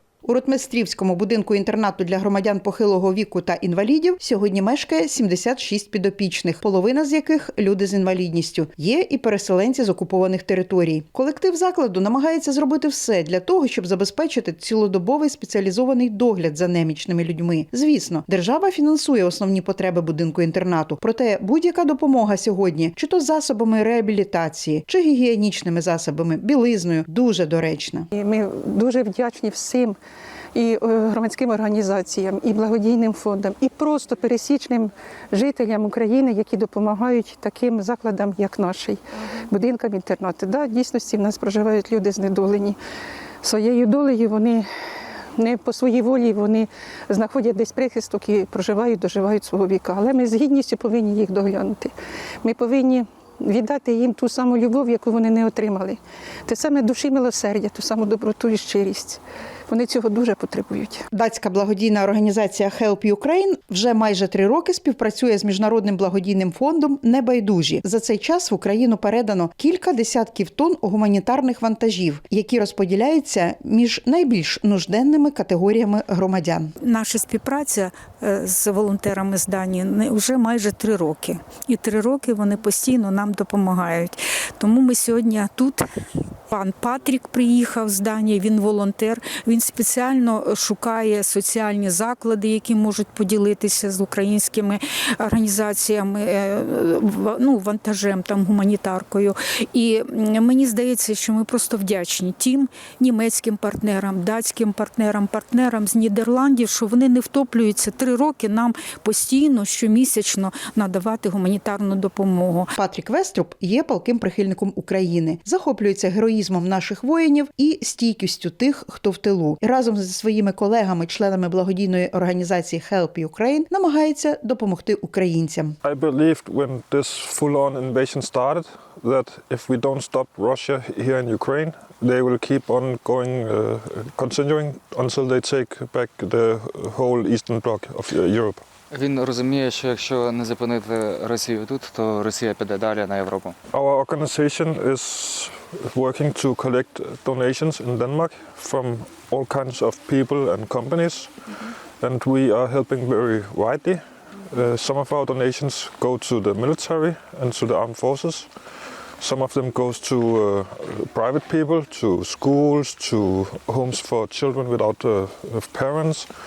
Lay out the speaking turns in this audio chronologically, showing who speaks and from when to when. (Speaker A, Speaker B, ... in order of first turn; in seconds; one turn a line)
Speaker A: 0.3-28.1
Speaker B: 28.1-30.0
Speaker B: 30.5-42.8
Speaker B: 43.4-44.7
Speaker B: 45.4-61.1
Speaker A: 61.1-76.7
Speaker C: 76.8-85.8
Speaker C: 86.5-112.7
Speaker A: 112.8-125.8
Speaker D: 125.8-138.6
Speaker E: 138.9-143.6
Speaker D: 143.7-151.3
Speaker D: 152.0-158.5
Speaker D: 159.2-166.3